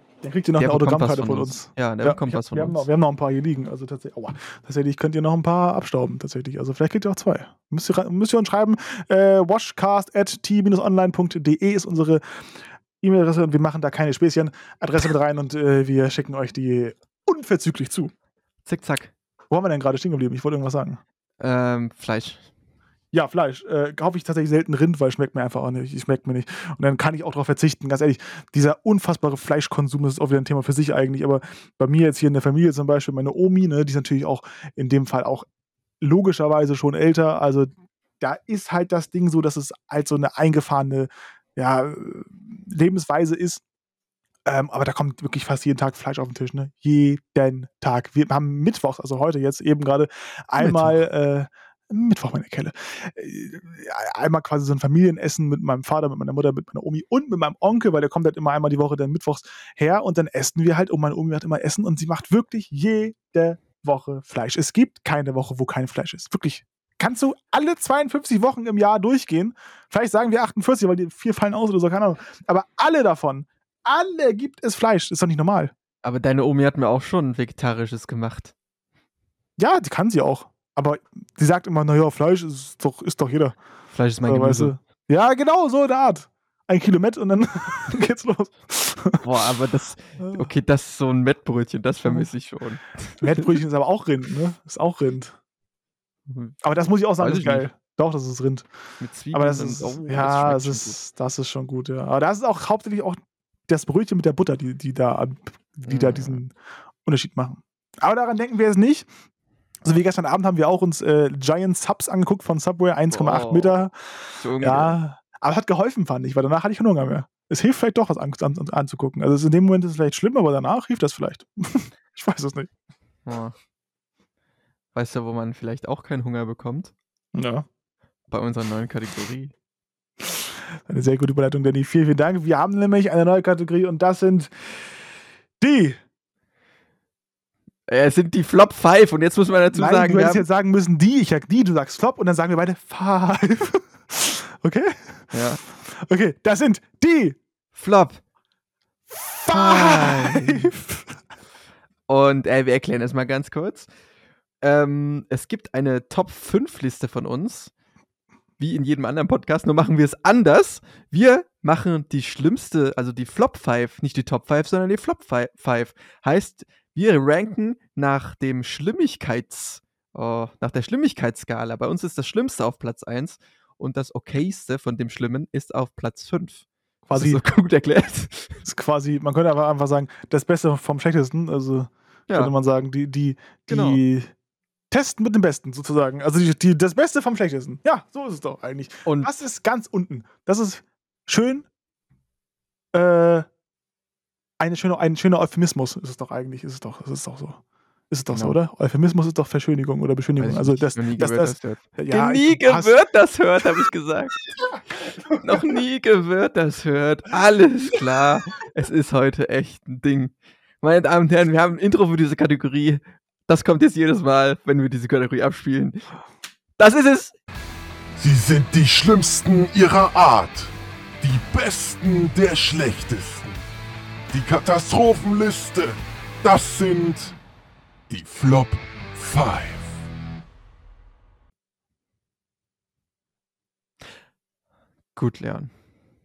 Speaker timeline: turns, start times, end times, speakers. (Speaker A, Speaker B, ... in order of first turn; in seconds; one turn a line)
Speaker A: 0.2-18.1
Speaker B: 0.6-2.9
Speaker B: 18.6-19.1
Speaker A: 19.5-21.0
Speaker B: 21.4-22.4
Speaker A: 23.1-35.5
Speaker A: 36.0-43.6
Speaker A: 44.5-75.7
Speaker B: 50.6-51.0
Speaker B: 76.0-78.5
Speaker A: 79.6-83.6
Speaker B: 83.9-84.8
Speaker A: 84.3-89.2
Speaker B: 89.2-93.5
Speaker A: 90.2-90.5
Speaker A: 93.2-95.4
Speaker B: 96.3-96.5
Speaker A: 96.6-98.7
Speaker B: 97.2-97.7
Speaker B: 99.0-101.0
Speaker A: 99.3-106.5
Speaker B: 105.9-106.4
Speaker A: 107.0-109.1
Speaker A: 109.8-114.0
Speaker B: 113.1-113.8
Speaker B: 114.4-115.0
Speaker A: 114.6-122.7
Speaker B: 123.3-123.6
Speaker B: 124.9-126.9
Speaker A: 127.3-127.7
Speaker B: 128.3-129.5
Speaker A: 130.9-134.9
Speaker A: 135.6-136.0
Speaker B: 137.9-140.5
Speaker A: 139.7-147.4
Speaker B: 145.3-145.6
Speaker B: 147.7-148.2
Speaker A: 149.1-151.2
Speaker B: 149.5-150.7
Speaker B: 152.1-153.9
Speaker B: 154.6-157.7
Speaker B: 158.6-178.6
Speaker A: 177.1-177.4
Speaker A: 178.7-184.3
Speaker B: 183.7-184.0
Speaker A: 184.9-191.7
Speaker B: 189.1-189.3
Speaker A: 192.9-193.5
Speaker A: 194.6-202.9
Speaker B: 198.3-198.6
Speaker B: 200.4-204.4
Speaker B: 205.3-216.0
Speaker B: 216.8-217.4
Speaker C: 218.2-223.6
Speaker C: 224.3-227.3
Speaker C: 228.1-230.0
Speaker B: 235.2-235.7